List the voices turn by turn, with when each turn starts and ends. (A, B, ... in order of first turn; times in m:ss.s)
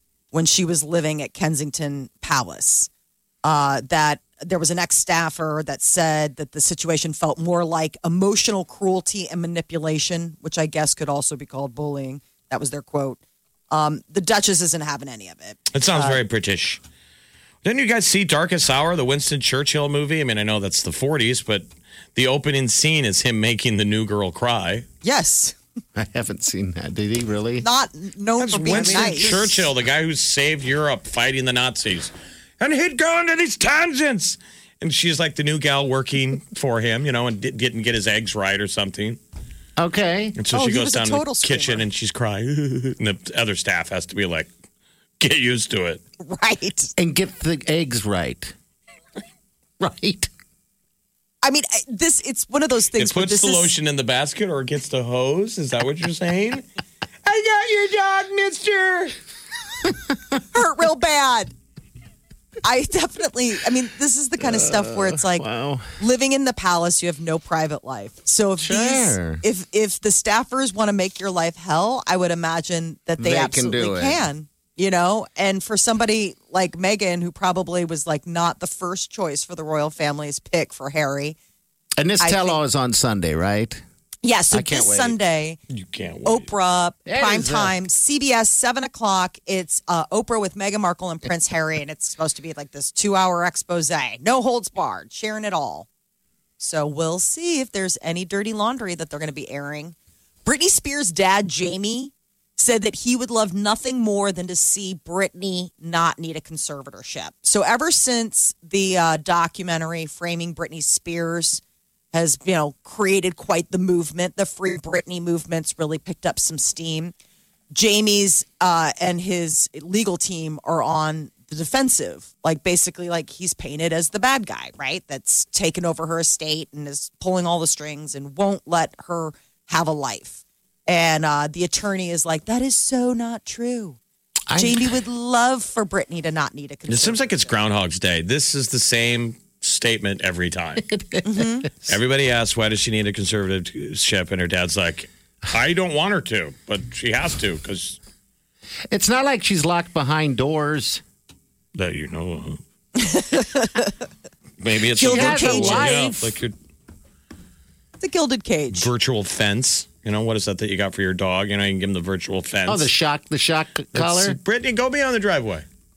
0:00.3-0:02.9 A
0:03.4-0:16.2 A
0:15.7-0:16.8 B
0:17.6-0:24.9 B
0:25.0-0:25.6 A
0:26.0-0:27.7 C
0:27.6-0:29.7 A
0:28.4-0:39.2 B
0:39.8-0:40.4 C
0:40.4-0:44.5 B
0:40.5-0:41.8 A
0:45.2-0:46.0 B
0:46.2-0:46.9 A
0:47.0-0:48.5 C
0:49.8-0:50.3 C
0:51.4-0:53.7 A
0:53.0-0:56.6 B
0:57.2-0:59.2 B
1:00.5-1:01.5 A
1:02.6-1:05.5 A
1:04.4-1:06.0 C
1:06.0-1:21.4 A
1:08.6-1:09.4 C
1:13.2-1:14.2 C
1:22.0-1:23.8 C
1:22.2-1:22.6 A
1:24.2-1:25.6 A
1:24.5-1:25.2 C
1:25.7-1:26.5 B
1:26.2-1:35.9 A
1:27.1-1:27.8 C
1:36.6-1:57.1 A
1:57.7-2:14.0 A
2:14.5-2:15.0 C
2:14.6-2:17.5 A
2:16.9-2:20.9 B
2:20.8-2:21.9 C
2:21.2-2:21.7 A
2:21.9-2:28.0 B
2:28.9-2:31.0 C
2:31.8-2:32.6 B
2:33.0-2:33.9 A
2:34.6-2:36.5 B
2:35.0-2:35.9 A
2:35.0-2:36.3 C
2:38.0-2:38.9 A
2:38.7-2:42.9 B
2:42.7-2:44.4 C
2:43.9-2:45.6 B